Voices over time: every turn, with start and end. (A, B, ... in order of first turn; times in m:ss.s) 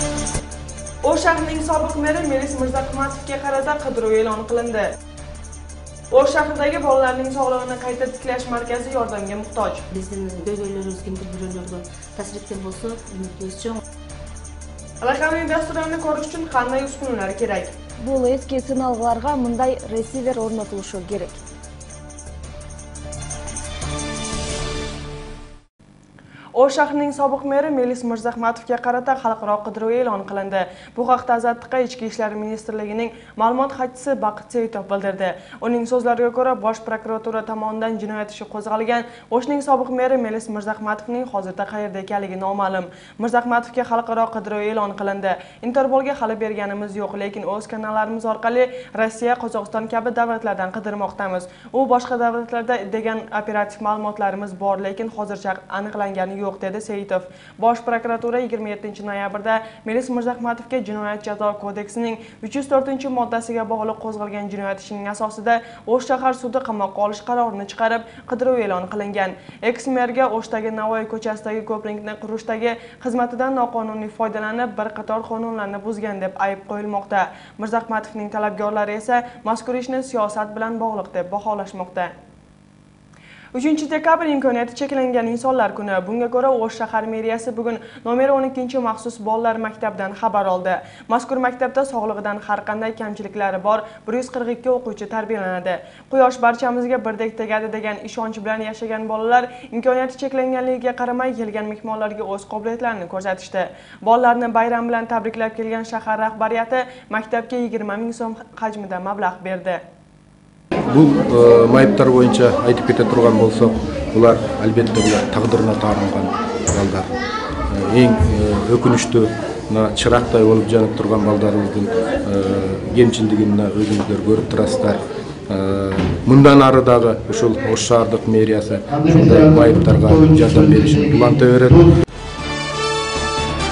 0:01.0-0:04.9 A
0:06.1-0:09.8 A
0:09.9-0:13.8 B
0:15.0-0:17.7 A
0:18.0-0:21.4 C
0:26.6-1:22.1 A
1:23.5-1:49.8 A
1:50.9-1:57.1 D
1:57.7-2:11.9 D